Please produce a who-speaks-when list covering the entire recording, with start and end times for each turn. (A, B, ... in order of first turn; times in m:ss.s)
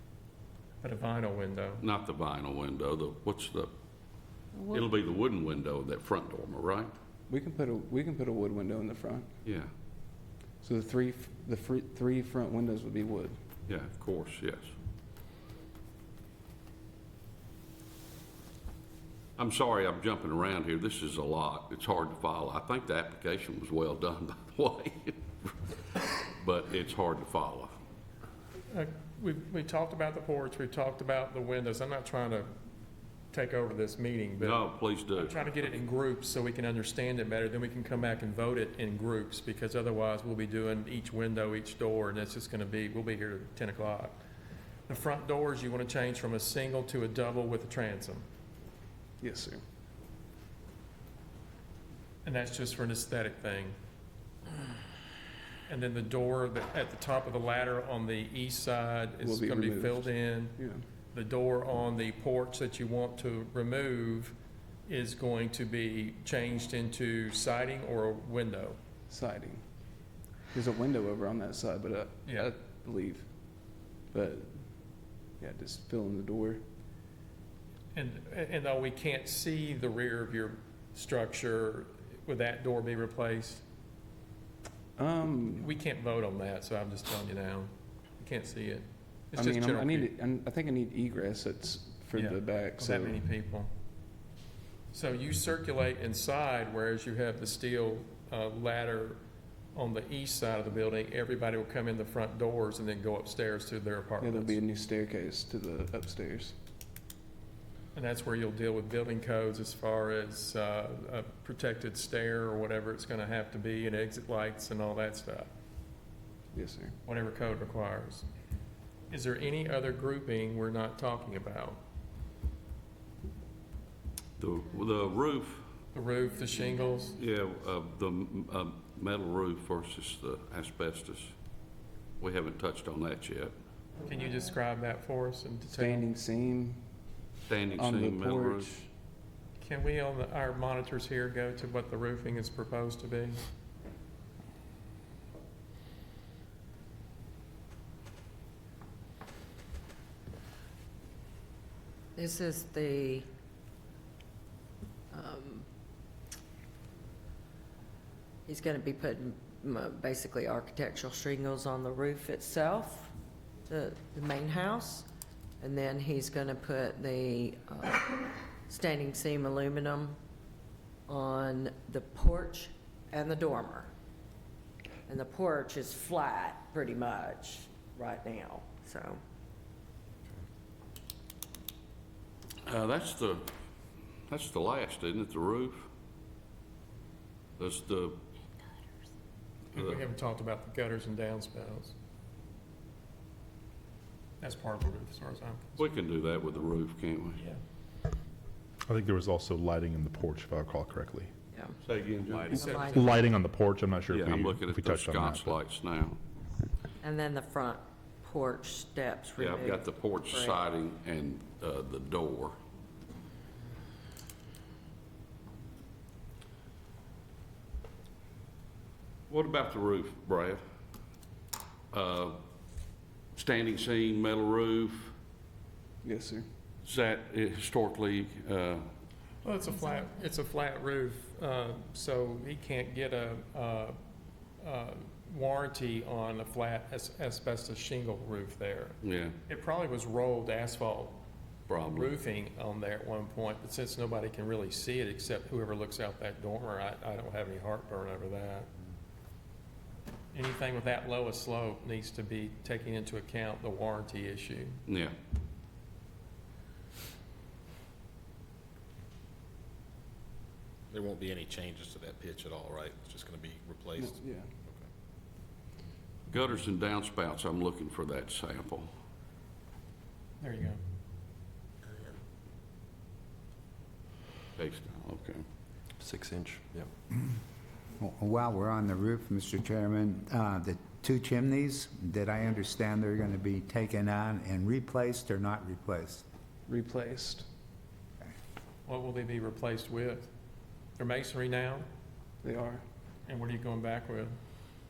0:00.8-0:01.8 A
0:01.8-0:03.7 B
0:04.6-0:06.9 B
0:07.3-0:09.3 C
0:09.4-0:09.7 B
0:10.6-0:13.4 C
0:13.7-0:14.7 B
0:19.4-0:27.8 B
0:28.7-0:32.5 A
0:33.3-0:44.2 A
0:34.4-0:35.4 B
0:44.9-0:48.2 A
0:49.2-0:49.6 C
0:52.2-0:53.8 A
0:55.7-1:00.6 A
0:59.2-1:00.8 C
1:01.1-1:04.4 A
1:04.9-1:08.8 A
1:09.1-1:09.6 C
1:10.5-1:13.3 C
1:12.3-1:12.5 A
1:14.1-1:14.7 C
1:15.4-1:16.6 C
1:17.9-1:23.6 A
1:25.0-1:25.7 C
1:25.6-1:30.1 A
1:29.3-1:33.2 C
1:32.1-1:33.7 A
1:34.9-1:39.2 A
1:39.7-1:44.6 A
1:44.2-1:46.6 C
1:47.9-1:55.5 A
1:56.5-1:57.0 C
1:57.1-1:58.3 A
1:59.1-2:01.8 A
2:04.4-2:05.6 B
2:05.9-2:07.2 A
2:07.2-2:11.3 B
2:12.2-2:13.5 B
2:14.1-2:16.1 A
2:15.7-2:16.8 C
2:17.5-2:18.8 B
2:17.8-2:18.9 C
2:19.6-2:23.5 A
2:32.2-2:33.3 D
2:35.1-2:35.7 D
2:38.5-2:43.1 D
2:43.7-2:45.1 D
2:45.6-2:50.2 D
2:51.1-2:53.9 D
2:55.1-2:59.2 D
3:02.7-3:03.5 B
3:04.3-3:05.9 B
3:07.6-3:08.2 B
3:09.7-3:11.9 A
3:14.4-3:15.8 A
3:15.8-3:17.4 B
3:18.9-3:21.3 E
3:21.8-3:22.8 B
3:22.5-3:23.2 D
3:22.5-3:23.0 A
3:22.9-3:25.6 E
3:24.1-3:26.2 B
3:27.0-3:30.6 D
3:29.4-3:32.6 B
3:39.3-3:40.6 B
3:41.9-3:42.4 B
3:43.4-3:45.1 B
3:46.0-3:46.5 C
3:46.8-3:48.9 B
3:49.4-3:54.0 A
3:54.6-4:01.2 A
3:59.0-3:59.4 B
4:01.7-4:02.1 B
4:01.8-4:08.7 A
4:10.3-4:14.8 A
4:14.9-4:15.1 B
4:20.9-4:24.9 F
4:24.0-4:24.5 C
4:26.3-4:28.9 B
4:30.4-4:30.8 A
4:34.6-4:35.4 B
4:38.0-4:46.2 G
4:46.7-4:47.5 C
4:48.9-4:50.3 A
4:51.0-4:51.9 A
4:52.4-4:52.8 C
4:53.3-4:54.3 A